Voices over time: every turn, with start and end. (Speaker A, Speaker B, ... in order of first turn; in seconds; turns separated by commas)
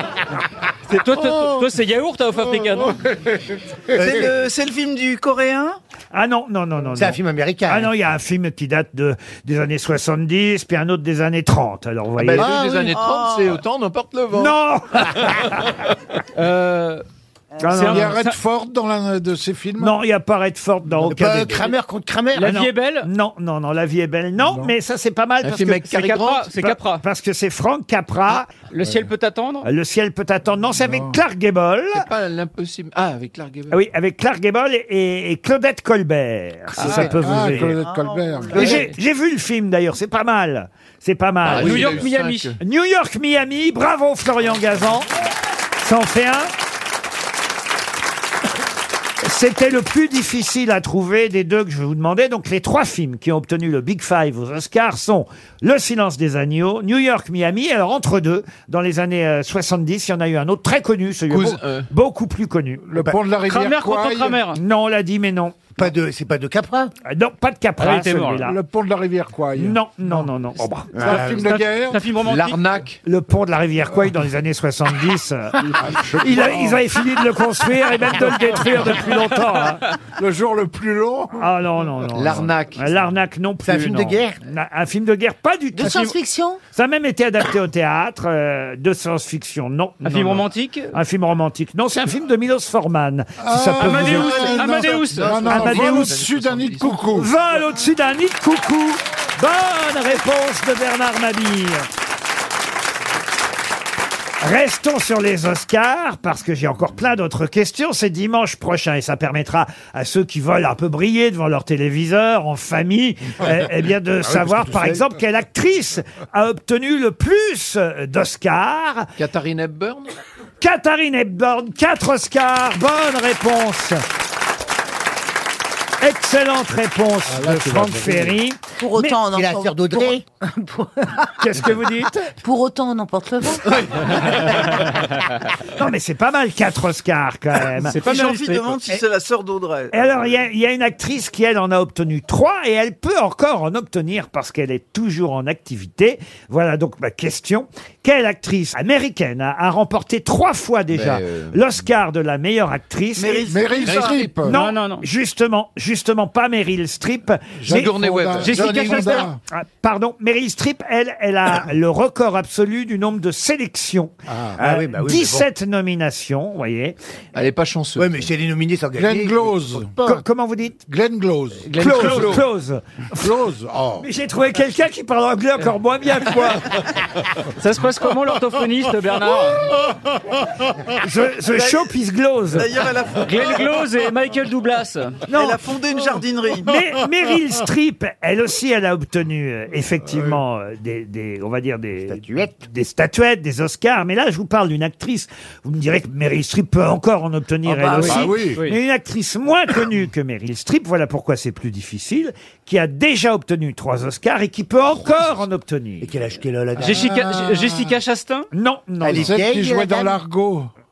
Speaker A: 0.9-3.0, Speaker B: 4.0-5.8, Speaker C: 6.1-12.5, Speaker D: 6.9-7.9, Speaker E: 12.2-14.6, Speaker D: 12.3-13.0, Speaker B: 12.9-13.6, Speaker C: 14.3-15.7, Speaker A: 16.4-17.0, Speaker C: 17.6-18.1, Speaker A: 17.6-18.4, Speaker F: 17.7-19.9, Speaker C: 19.8-21.7, Speaker D: 21.0-22.6, Speaker A: 22.3-23.1, Speaker C: 22.4-28.5, Speaker F: 24.4-24.7, Speaker E: 25.4-26.6, Speaker A: 25.9-27.0, Speaker A: 28.7-29.7, Speaker F: 28.8-29.1, Speaker C: 29.6-32.1, Speaker F: 30.7-31.2, Speaker E: 31.9-33.8, Speaker C: 33.7-37.8, Speaker A: 36.8-37.4, Speaker F: 36.8-38.9, Speaker B: 37.7-38.8, Speaker C: 38.5-45.1, Speaker E: 41.4-42.5, Speaker A: 41.5-42.5, Speaker C: 45.8-46.5, Speaker C: 49.2-62.8, Speaker E: 61.3-61.9, Speaker F: 62.8-64.4, Speaker A: 63.4-64.6, Speaker C: 64.5-65.5, Speaker D: 65.8-66.9, Speaker C: 67.0-68.5, Speaker A: 67.8-68.4, Speaker F: 68.4-70.3, Speaker C: 69.5-71.1, Speaker D: 70.9-71.5, Speaker F: 71.0-72.0, Speaker A: 71.5-72.6, Speaker E: 72.2-73.0, Speaker C: 73.0-75.6, Speaker F: 75.8-76.8, Speaker C: 76.2-79.8, Speaker F: 80.2-81.5, Speaker C: 81.4-86.1, Speaker E: 82.1-82.9, Speaker D: 83.6-84.4, Speaker G: 85.7-86.6, Speaker A: 85.8-86.1, Speaker C: 86.7-96.2, Speaker A: 90.0-90.9, Speaker F: 93.4-97.3, Speaker A: 93.8-95.5, Speaker E: 95.0-97.0, Speaker C: 97.1-101.9, Speaker C: 104.4-119.1, Speaker D: 114.3-115.0, Speaker F: 114.3-114.9, Speaker E: 119.2-120.1, Speaker C: 120.6-124.0, Speaker C: 126.0-129.2, Speaker F: 127.3-128.4, Speaker G: 128.8-131.7, Speaker D: 129.3-130.2, Speaker C: 131.4-132.3, Speaker G: 132.4-134.6, Speaker C: 135.8-137.9, Speaker A: 137.8-139.0, Speaker B: 137.9-140.3, Speaker C: 139.9-153.5, Speaker E: 150.9-151.6, Speaker B: 153.2-154.2, Speaker F: 153.4-154.6, Speaker E: 153.9-154.2, Speaker C: 154.4-157.9, Speaker A: 154.4-155.0, Speaker F: 157.6-159.4, Speaker E: 157.7-158.7, Speaker A: 158.4-159.3, Speaker D: 158.5-159.2, Speaker C: 159.5-166.9, Speaker F: 164.3-164.6, Speaker D: 164.6-165.5, Speaker E: 167.3-168.3, Speaker D: 167.9-169.9, Speaker F: 168.9-170.1, Speaker C: 170.0-170.8, Speaker F: 170.9-172.4, Speaker C: 171.7-173.3, Speaker E: 171.7-172.4, Speaker F: 173.2-174.0, Speaker D: 173.7-174.0, Speaker C: 174.0-176.8, Speaker A: 177.6-179.7, Speaker C: 181.0-182.7, Speaker B: 181.5-181.9, Speaker B: 182.5-183.7, Speaker A: 183.2-185.2, Speaker C: 185.3-185.6, Speaker B: 185.3-186.7, Speaker C: 186.6-206.1, Speaker F: 190.1-190.4, Speaker D: 192.1-192.5, Speaker D: 197.9-198.2, Speaker F: 197.9-198.6, Speaker D: 206.0-207.3, Speaker A: 206.8-208.5, Speaker F: 206.8-207.9, Speaker C: 208.5-209.4, Speaker D: 209.0-210.2, Speaker F: 209.1-210.7